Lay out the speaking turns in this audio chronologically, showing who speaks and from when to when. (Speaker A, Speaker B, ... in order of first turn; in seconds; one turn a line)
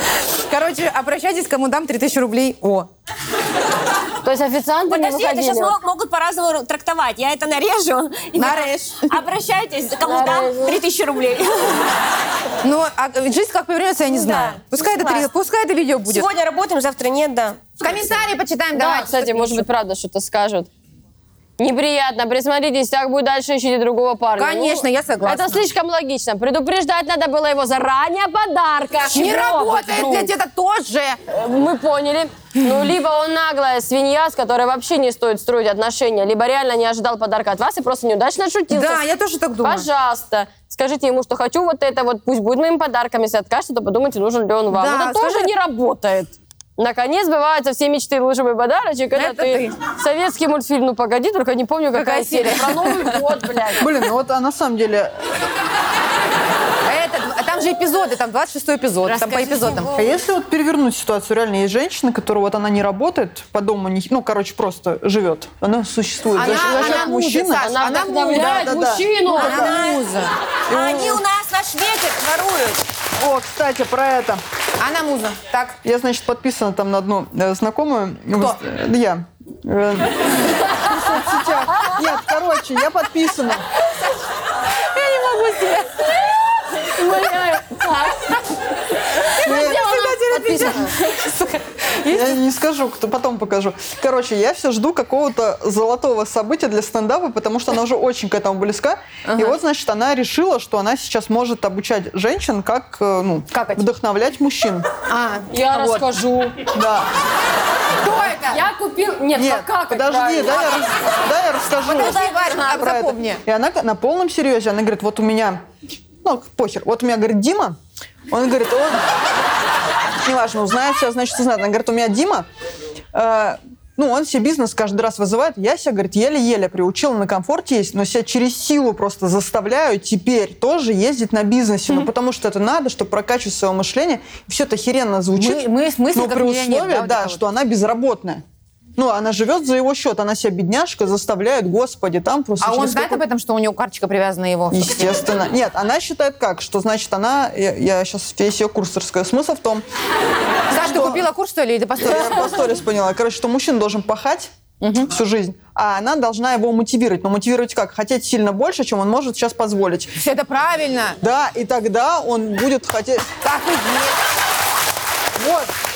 Speaker A: 0.3-2.9
Speaker B: 4.2-5.7
Speaker C: 4.9-11.9
Speaker A: 8.3-9.2
Speaker B: 10.0-10.8
Speaker A: 12.6-16.3
Speaker C: 14.1-15.3
Speaker C: 16.1-17.8
Speaker A: 17.8-19.7
Speaker B: 18.8-20.7
Speaker B: 21.6-30.3
Speaker A: 24.4-25.6
Speaker A: 29.1-31.2
Speaker B: 31.3-39.0
Speaker A: 38.7-39.9
Speaker B: 39.6-53.9
Speaker A: 44.7-45.5
Speaker A: 49.1-49.8
Speaker A: 51.9-53.2
Speaker D: 53.8-55.2
Speaker A: 56.8-59.9
Speaker C: 59.1-60.1
Speaker D: 60.0-69.8
Speaker A: 66.3-68.7
Speaker B: 66.5-69.7
Speaker A: 69.3-70.3
Speaker C: 69.4-70.1
Speaker C: 70.7-72.8
Speaker D: 70.8-71.2
Speaker D: 73.2-74.4
Speaker A: 74.8-75.8
Speaker D: 75.8-83.7
Speaker B: 84.9-88.5
Speaker D: 89.4-90.9
Speaker B: 89.4-91.5
Speaker D: 92.1-104.9
Speaker A: 99.2-99.6
Speaker A: 105.1-106.1
Speaker B: 105.5-106.6
Speaker D: 106.7-107.1
Speaker A: 108.0-108.6
Speaker B: 108.3-110.8
Speaker D: 109.3-115.6
Speaker A: 111.8-113.4
Speaker C: 111.9-112.7
Speaker D: 116.2-117.8
Speaker D: 118.3-119.0
Speaker D: 120.2-122.5
Speaker D: 123.1-138.4
Speaker A: 135.3-137.4
Speaker D: 139.0-143.2
Speaker A: 142.6-145.2
Speaker D: 144.7-149.8
Speaker A: 150.7-152.7
Speaker D: 150.7-151.2
Speaker D: 152.0-154.5
Speaker A: 154.8-155.1
Speaker D: 155.1-160.2
Speaker A: 160.2-161.2
Speaker D: 161.2-163.3
Speaker A: 163.4-164.2
Speaker D: 165.4-165.7